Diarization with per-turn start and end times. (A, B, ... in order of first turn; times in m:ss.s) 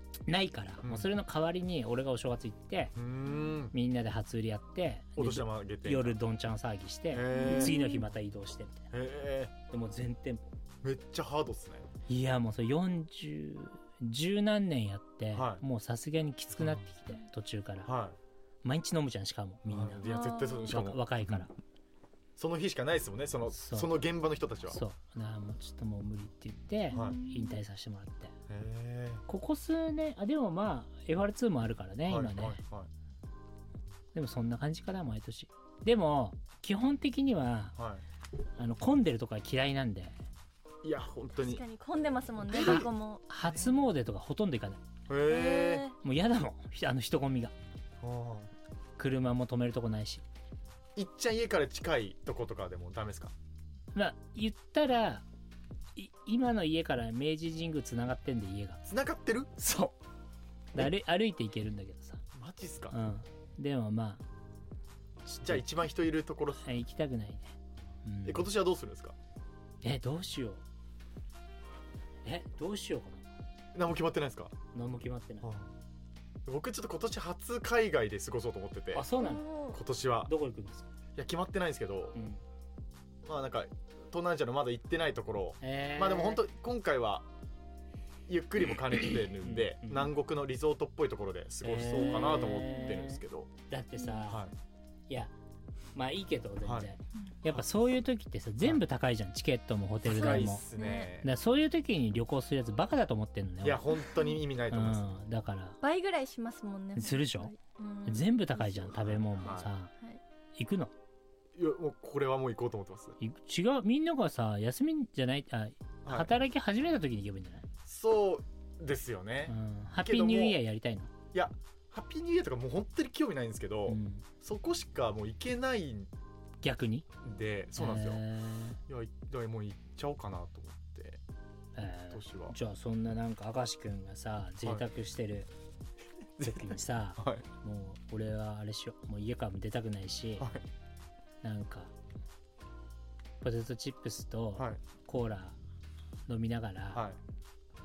0:00.3-0:03.0 A
0:00.8-0:01.1 B
0:03.0-0:03.8 B
0:03.3-0:03.5 C
0:03.7-0:08.9 A
0:05.2-0:06.2 B
0:07.1-0:07.8 B
0:07.3-0:08.0 C
0:08.9-0:09.5 B
0:09.7-0:10.6 A
0:10.8-0:11.9 B
0:12.1-0:17.9 A
0:15.3-0:15.6 B
0:16.6-0:16.9 B
0:17.9-0:18.2 B
0:18.6-0:20.0 A
0:19.7-0:21.5 B
0:20.0-0:20.8 C
0:20.7-0:21.5 A
0:22.4-0:24.8 B
0:23.5-0:23.9 A
0:24.7-0:28.3 A
0:26.9-0:27.6 C
0:26.9-0:27.2 B
0:28.5-0:29.2 B
0:29.3-0:32.6 A
0:32.1-0:32.9 B
0:34.1-0:37.8 A
0:37.8-0:38.0 B
0:38.6-0:40.2 A
0:40.8-0:41.6 B
0:41.4-0:43.2 C
0:42.5-0:42.9 B
0:42.6-0:44.8 A
0:43.4-0:43.8 B
0:45.1-0:45.9 B
0:45.3-0:46.0 C
0:46.0-0:47.5 A
0:48.0-0:48.5 B
0:49.0-0:50.2 A
0:51.0-0:53.3 B
0:53.9-0:55.2 A
0:56.0-0:58.8 A
0:58.9-0:59.7 B
0:59.6-0:59.9 A
1:00.8-1:02.2 A
1:02.3-1:03.0 B
1:02.9-1:04.2 A
1:05.3-1:05.6 A
1:05.4-1:06.6 B
1:06.6-1:07.5 A
1:08.0-1:08.5 A
1:08.2-1:09.2 B
1:09.8-1:10.6 A
1:12.2-1:13.3 A
1:13.7-1:14.5 B
1:14.7-1:15.5 A
1:15.4-1:15.7 B
1:16.5-1:19.1 B
1:18.9-1:19.5 A
1:19.2-1:19.8 C
1:19.7-1:20.3 B
1:20.3-1:20.9 A
1:21.2-1:22.2 B
1:22.2-1:22.4 A
1:23.2-1:27.3 B
1:25.6-1:26.4 A
1:28.3-1:33.5 B
1:29.4-1:30.1 A
1:31.6-1:34.4 A
1:32.6-1:32.9 C
1:34.3-1:34.5 B
1:36.0-1:40.6 A
1:36.6-1:36.9 B
1:40.1-1:41.3 B
1:40.1-1:41.1 C
1:41.2-1:43.9 A
1:43.6-1:45.1 B
1:44.7-1:45.8 A
1:45.8-1:48.4 C
1:47.0-1:47.5 A
1:48.1-1:49.9 A
1:48.7-1:49.7 B
1:50.6-1:50.9 A
1:51.6-1:53.2 B
1:53.2-1:57.6 A
1:56.0-1:56.3 B
1:57.8-2:00.6 B
1:59.5-2:01.1 A
2:01.3-2:06.1 B
2:03.9-2:04.3 A
2:06.6-2:07.1 A
2:07.2-2:08.2 B
2:07.8-2:08.8 A
2:08.9-2:11.2 B
2:11.8-2:15.5 A
2:12.1-2:12.6 B
2:16.4-2:17.4 B
2:16.4-2:20.5 A
2:20.4-2:20.6 B
2:21.4-2:21.9 A
2:23.4-2:25.6 A
2:26.3-2:27.1 A
2:26.9-2:27.2 B